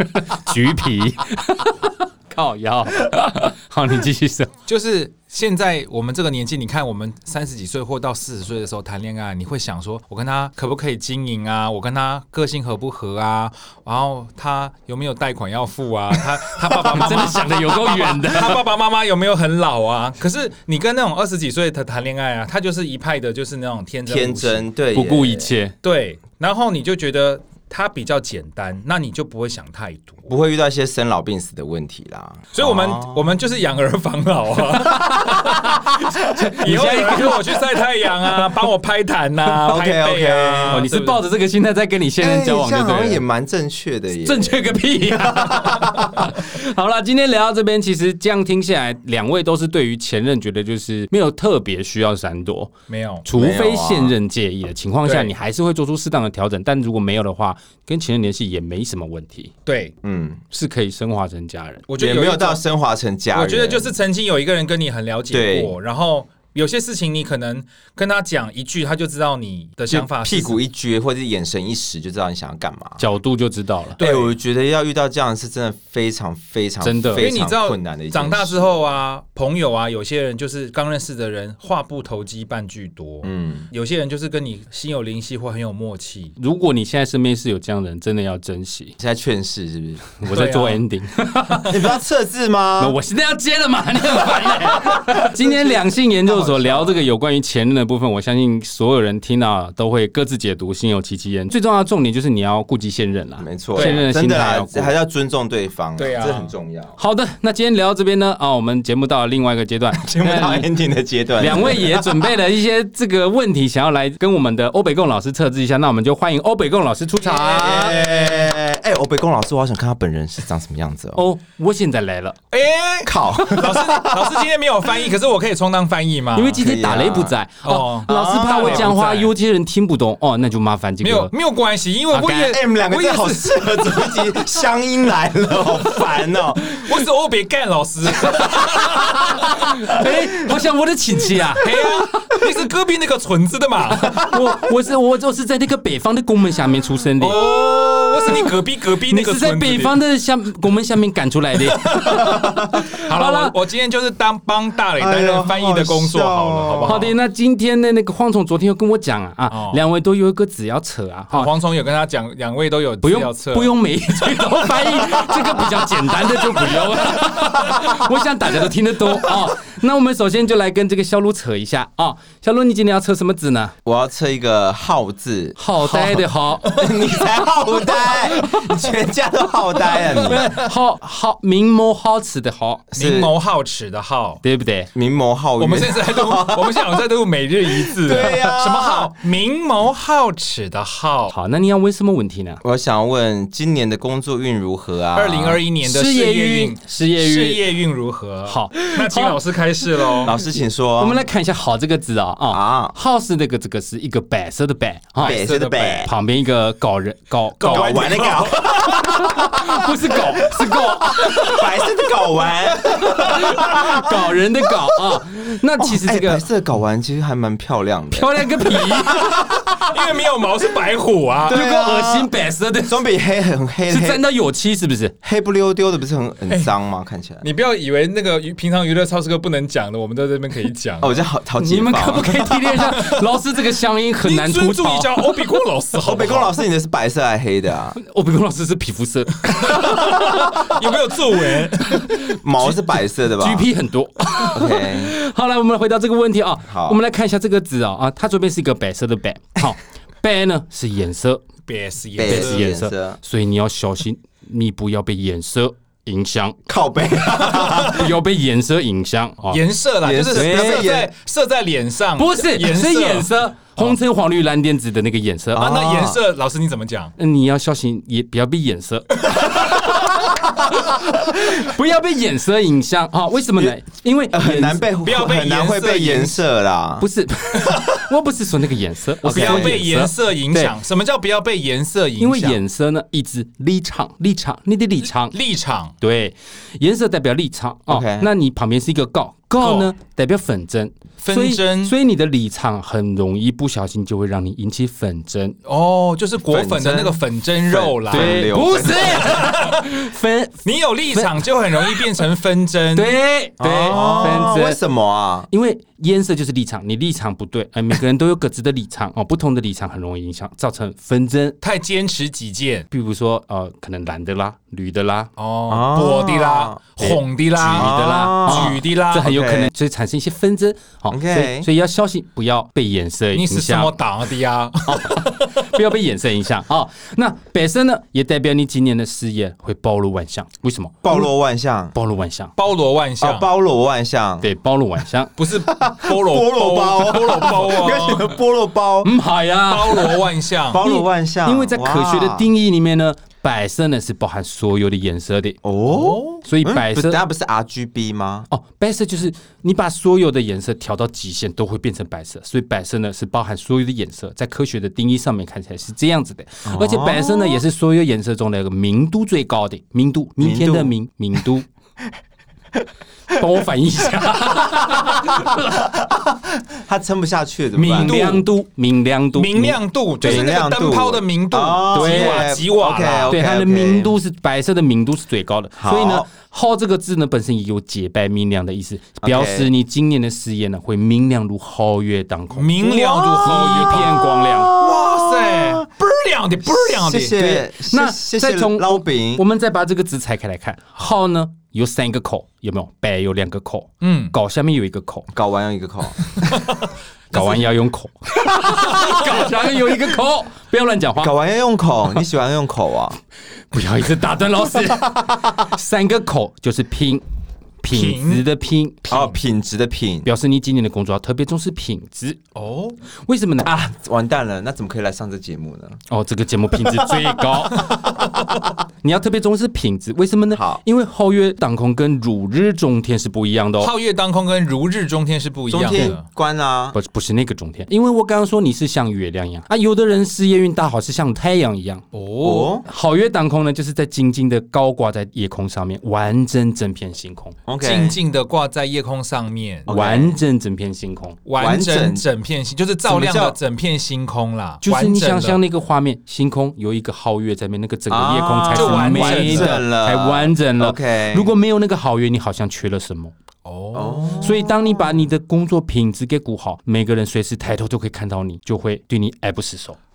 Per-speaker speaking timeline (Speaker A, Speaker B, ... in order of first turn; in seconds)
Speaker A: 0.1-4.5, 16.8-18.6, 24.9-25.8, 34.9-37.6, 40.7-43.2, 44.2-52.7, 53.2-59.5, 60.5-61.9, 73.0-74.0, 76.8-77.3, 86.4-89.0, 90.2-91.8, 92.8-105.0, 107.0-110.7, 111.4-118.1, 121.2-122.4, 126.3-131.3, 132.1-132.5, 139.4-142.3, 144.0-147.4, 149.1-153.6, 156.8-161.5, 163.0-173.7, 175.6-176.8, 180.2-182.9, 184.4-184.9, 191.3-192.6, 195.8-197.6, 198.5-199.4, 201.0-205.4, 206.1-208.2, 208.9-211.6, 213.0-216.4, 218.1-219.8, 221.5-223.0, 223.9-225.1, 231.6-235.2, 238.0-240.7, 241.9-242.7, 243.4-251.4, 252.3-256.6, 257.8-259.6, 260.3-260.9, 262.2-265.7, 267.2-274.8, 277.0-280.7, 282.2-285.4, 286.0-295.6, 298.1-302.1, 302.9-304.8, 305.5-311.6, 312.9-315.3, 317.0-324.0, 324.9-331.3, 331.9-332.5, 334.4-335.3, 339.0-340.2, 340.8-345.6, 346.4-347.2, 348.5-361.7, 363.3-365.7, 367.8-370.4, 371.9-372.6, 373.3-384.8, 387.9-395.3, 397.3-401.3, 403.7-407.2, 407.8-409.1, 410.2-412.4, 413.2-413.7, 416.1-418.0, 419.0-423.9, 426.9-432.1, 432.9-437.6, 439.9-441.4, 444.8-453.3, 454.4-460.0
Speaker B: 4.7-24.7, 25.8-30.3, 32.5-41.2, 52.9-53.3, 55.0-55.3, 59.7-59.9, 61.9-62.6, 63.3-70.6, 74.0-74.3, 77.2-86.3, 90.3-90.8, 103.8-104.0, 106.0-106.5, 122.5-126.6, 127.7-129.3, 131.0-134.0, 135.7-139.4, 141.6-144.3, 147.2-150.0, 151.7-157.1, 159.5-159.8, 161.3-165.3, 182.9-184.4, 185.6-191.3, 195.1-200.3, 205.2-206.1, 207.6-209.1, 219.8-221.6, 227.4-231.2, 232.8-233.2, 234.2-236.6, 239.4-242.1, 251.7-252.7, 257.5-257.8, 259.5-264.0, 265.6-267.1, 275.0-276.4, 279.3-282.6, 285.3-285.9, 289.6-289.9, 291.2-291.9, 295.6-300.0, 300.6-303.1, 303.9-304.5, 311.6-312.9, 315.4-319.3, 323.3-325.6, 332.6-333.5, 335.4-338.4, 339.7-340.8, 345.9-346.4, 368.0-368.4, 369.3-373.4, 382.5-387.7, 394.0-394.3, 397.3-397.6, 407.9-408.4, 412.6-413.0, 423.8-426.2, 432.1-432.8, 437.8-439.9, 441.4-445.6, 448.7-449.8, 453.6-454.5
Speaker C: 24.1-25.5, 30.3-33.3, 39.7-40.9, 42.2-46.3, 53.3-54.1, 60.0-60.4, 62.0-64.0, 65.3-65.8, 69.9-73.0, 74.0-78.8, 83.2-83.7, 89.0-90.1, 91.7-93.0, 94.3-97.0, 103.4-107.0, 109.9-112.3, 117.3-121.2, 123.0-124.5, 126.6-127.3, 128.1-128.9, 132.3-136.9, 138.3-139.1, 147.6-148.4, 155.0-157.1, 173.8-180.5, 182.9-183.3, 184.9-187.1, 187.7-189.1, 192.6-195.6, 200.2-201.2, 202.5-202.9, 205.2-206.1, 207.7-215.2, 215.8-218.8, 221.4-224.2, 225.2-227.4, 231.0-232.6, 236.0-238.0, 242.2-243.7, 244.5-245.1, 246.7-247.0, 252.2-253.2, 256.7-258.1, 260.0-261.1, 265.5-266.2, 274.3-277.1, 279.2-279.8, 287.9-288.3, 296.5-299.5, 303.6-305.5, 315.7-316.8, 317.7-319.7, 321.1-321.7, 331.0-331.9, 333.2-334.5, 335.7-339.1, 340.7-342.5, 345.6-348.5, 356.7-357.6, 360.4-360.9, 365.0-368.3, 370.2-374.1, 375.8-376.3, 379.2-379.7, 382.9-385.9, 386.7-389.4, 395.3-396.3, 401.2-403.2, 404.8-405.5, 409.1-410.3, 413.6-416.0, 420.5-420.8, 425.7-427.0, 432.4-432.9, 437.7-438.2, 439.9-440.4, 441.6-442.2, 443.1-443.6, 448.1-451.5, 453.9-455.2